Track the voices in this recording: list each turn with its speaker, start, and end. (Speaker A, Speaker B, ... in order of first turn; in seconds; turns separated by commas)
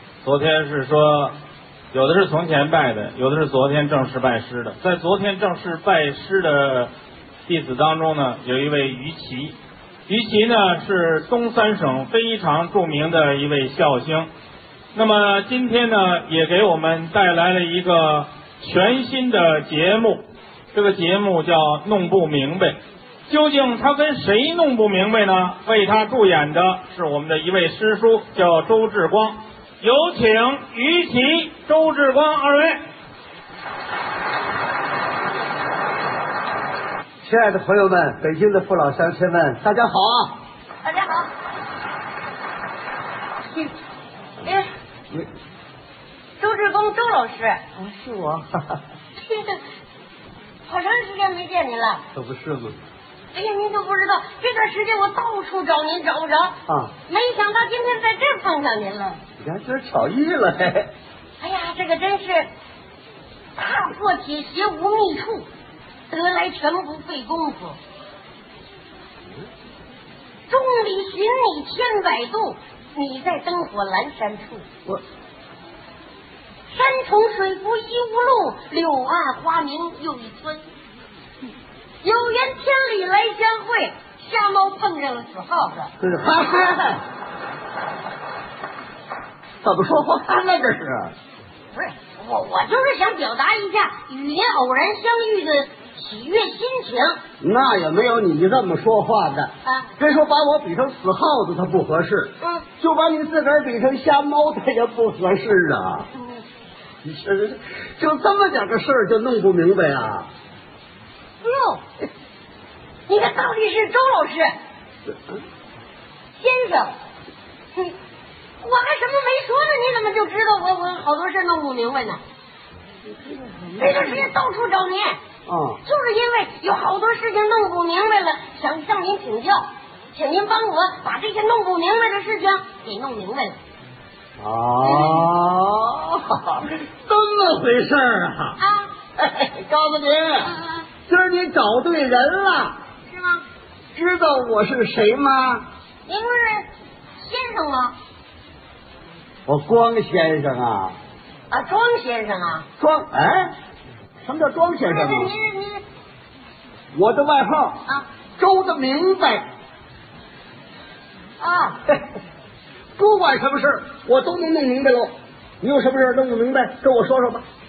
Speaker A: 0.2-1.4, Speaker A: 1.9-6.9, Speaker A: 7.5-9.6, Speaker A: 10.1-14.3, Speaker A: 14.9-20.2, Speaker A: 20.7-32.9, Speaker B: 37.2-40.4, Speaker C: 40.8-41.3, Speaker C: 44.4-44.7, Speaker C: 46.4-47.6, Speaker B: 47.8-48.8, Speaker C: 49.1-49.6, Speaker C: 50.7-52.0, Speaker B: 52.1-52.8, Speaker C: 53.3-56.6, Speaker B: 56.7-56.9, Speaker C: 57.1-59.2, Speaker B: 59.4-60.9, Speaker C: 61.4-62.5, Speaker C: 63.6-65.5, Speaker C: 66.1-67.8, Speaker C: 70.5-74.7, Speaker C: 76.7-80.7, Speaker C: 82.0-85.9, Speaker B: 86.0-87.0, Speaker B: 89.6-91.2, Speaker C: 91.7-97.2, Speaker B: 97.4-106.1, Speaker C: 99.7-99.9, Speaker C: 102.4-102.7, Speaker C: 106.1-106.4, Speaker B: 107.0-110.3, Speaker C: 111.4-111.8, Speaker C: 113.1-114.5, Speaker B: 115.1-115.4, Speaker C: 116.3-117.0, Speaker C: 118.6-122.2, Speaker B: 123.0-124.3, Speaker C: 123.8-125.2, Speaker B: 125.5-125.8, Speaker C: 125.8-133.6, Speaker B: 134.4-138.6, Speaker C: 134.8-135.3, Speaker C: 138.6-138.9, Speaker B: 139.2-140.6, Speaker C: 140.4-140.8, Speaker B: 141.1-142.8, Speaker C: 143.1-143.4, Speaker B: 143.9-145.7, Speaker C: 146.1-147.9, Speaker B: 149.5-151.0, Speaker C: 151.5-152.7, Speaker B: 152.8-153.6, Speaker B: 154.2-155.3, Speaker C: 154.9-155.8, Speaker B: 156.9-157.9, Speaker B: 158.4-159.5, Speaker C: 161.4-161.8, Speaker B: 163.0-167.5